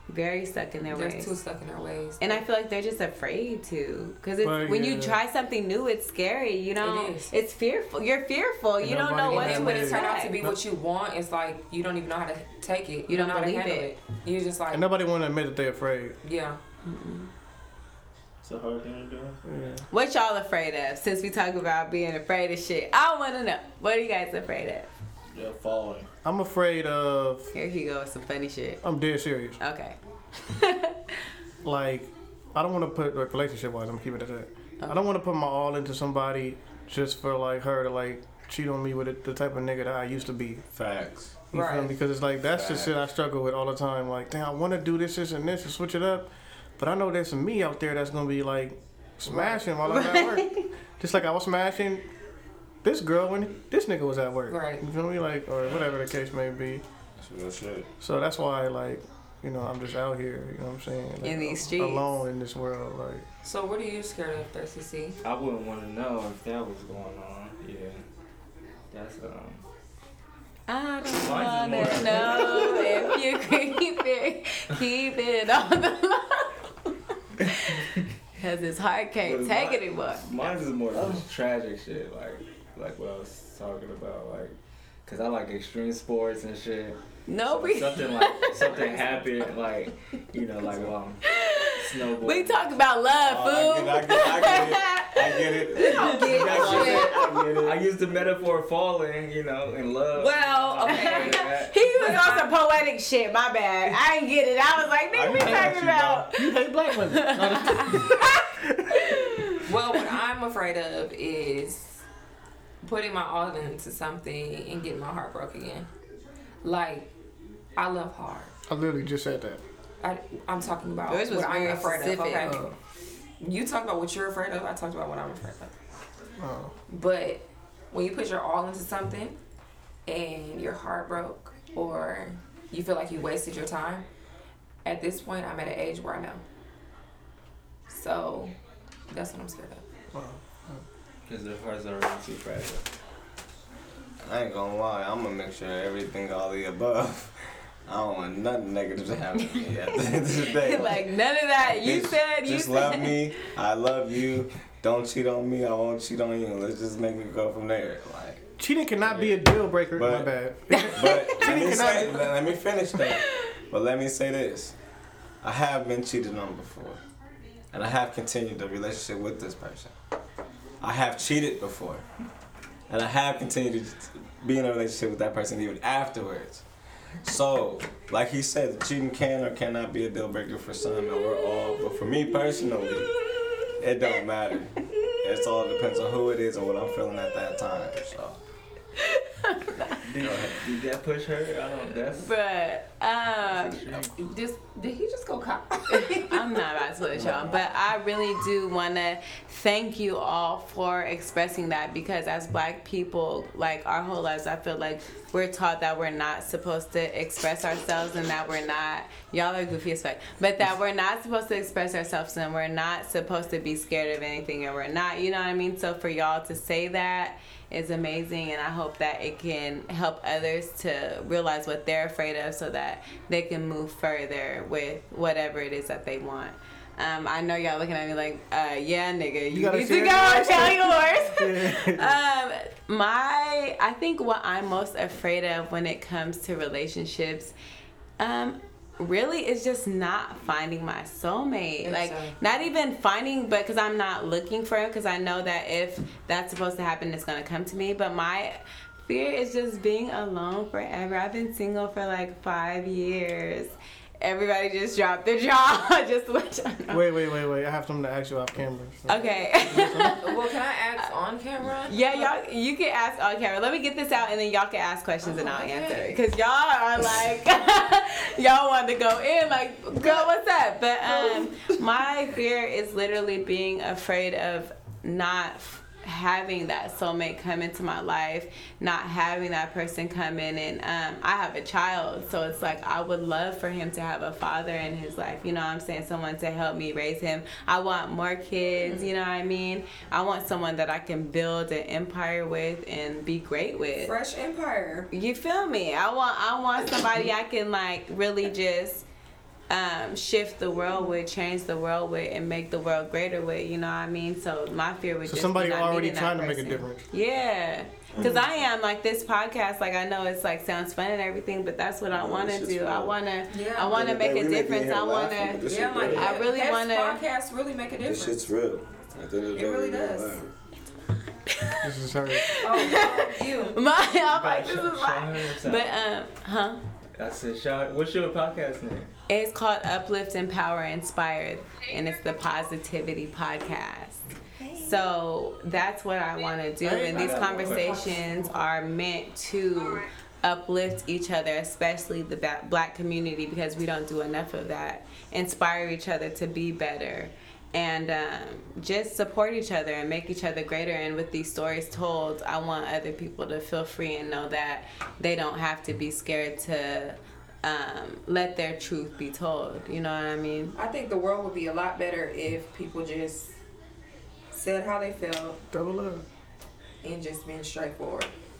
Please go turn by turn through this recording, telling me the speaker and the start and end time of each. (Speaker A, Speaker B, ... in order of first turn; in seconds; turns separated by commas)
Speaker A: 0.1-1.3, Speaker B: 0.9-2.4, Speaker A: 2.2-10.3, Speaker C: 4.4-5.2, Speaker B: 6.8-7.3, Speaker C: 8.8-10.6, Speaker B: 9.3-14.9, Speaker A: 13.1-13.9, Speaker C: 14.7-16.2, Speaker B: 16.2-16.6, Speaker A: 16.8-17.3, Speaker D: 18.4-19.4, Speaker C: 19.5-19.9, Speaker A: 19.9-24.9, Speaker D: 25.3-26.1, Speaker C: 26.2-27.5, Speaker A: 27.5-28.8, Speaker C: 28.8-29.6, Speaker A: 29.6-31.2, Speaker C: 31.6-40.7, Speaker E: 40.7-41.3, Speaker C: 41.5-52.1, Speaker B: 41.5-42.0, Speaker E: 42.4-43.0, Speaker B: 49.3-49.6, Speaker A: 49.8-50.7, Speaker C: 52.8-56.8, Speaker B: 54.5-54.8, Speaker E: 57.2-57.9, Speaker C: 58.0-63.2, Speaker A: 61.2-62.2, Speaker B: 63.4-65.2, Speaker D: 65.2-68.0, Speaker D: 68.9-69.7, Speaker A: 70.7-80.2, Speaker D: 71.1-73.1, Speaker B: 71.8-73.1, Speaker D: 79.2-92.8, Speaker A: 87.3-89.0, Speaker A: 91.2-97.1, Speaker E: 93.2-97.9, Speaker B: 95.9-97.3, Speaker D: 96.1-102.2, Speaker B: 100.2-102.5, Speaker A: 100.8-106.5, Speaker E: 105.1-106.3, Speaker C: 105.4-105.7, Speaker C: 106.3-109.6, Speaker A: 107.1-108.4, Speaker A: 109.0-109.6, Speaker B: 109.6-112.0, Speaker B: 112.8-115.9, Speaker B: 116.6-117.1, Speaker B: 117.8-118.5, Speaker C: 118.7-119.6, Speaker B: 120.0-122.8, Speaker A: 121.1-122.6, Speaker C: 122.4-122.7, Speaker B: 123.4-125.8, Speaker C: 126.4-126.8, Speaker B: 126.9-129.4, Speaker B: 130.1-134.1, Speaker B: 134.8-136.4, Speaker B: 137.9-138.5, Speaker B: 139.1-139.9, Speaker C: 140.1-140.8, Speaker D: 141.3-142.9, Speaker E: 144.2-151.1, Speaker A: 150.1-153.4, Speaker E: 151.6-160.3, Speaker C: 158.6-162.3, Speaker A: 160.7-161.3, Speaker E: 160.9-164.8, Speaker A: 163.0-163.5, Speaker E: 165.4-167.0, Speaker E: 167.7-169.9, Speaker E: 170.8-172.1, Speaker E: 172.9-176.7, Speaker E: 177.2-183.2, Speaker E: 183.7-188.4, Speaker A: 189.0-190.0, Speaker D: 190.0-192.3, Speaker E: 190.2-190.6, Speaker A: 192.1-193.8, Speaker D: 193.4-194.2, Speaker B: 194.2-196.6, Speaker A: 195.9-237.5, Speaker E: 197.1-197.7, Speaker C: 229.5-232.2, Speaker A: 238.2-257.1, Speaker B: 241.8-242.4, Speaker C: 256.9-260.2, Speaker A: 259.1-260.4, Speaker B: 260.2-262.3, Speaker A: 261.9-294.1, Speaker B: 265.2-266.2, Speaker B: 270.0-270.3, Speaker B: 271.1-271.5, Speaker B: 288.8-289.1, Speaker B: 294.0-295.1, Speaker A: 295.1-299.1, Speaker A: 299.7-317.2, Speaker C: 305.2-307.1, Speaker E: 308.1-308.4, Speaker E: 312.1-313.2, Speaker B: 313.5-314.1, Speaker E: 313.8-316.4, Speaker B: 315.6-318.4, Speaker E: 318.0-320.5, Speaker B: 319.6-320.5, Speaker A: 321.5-326.8, Speaker C: 321.8-322.6, Speaker B: 322.5-323.8, Speaker D: 324.2-326.0, Speaker D: 327.2-329.1, Speaker A: 329.3-360.8, Speaker C: 336.9-337.5, Speaker B: 337.0-338.6, Speaker D: 337.1-338.0, Speaker B: 360.8-363.6, Speaker B: 364.5-365.6, Speaker C: 365.7-366.3, Speaker B: 367.0-368.3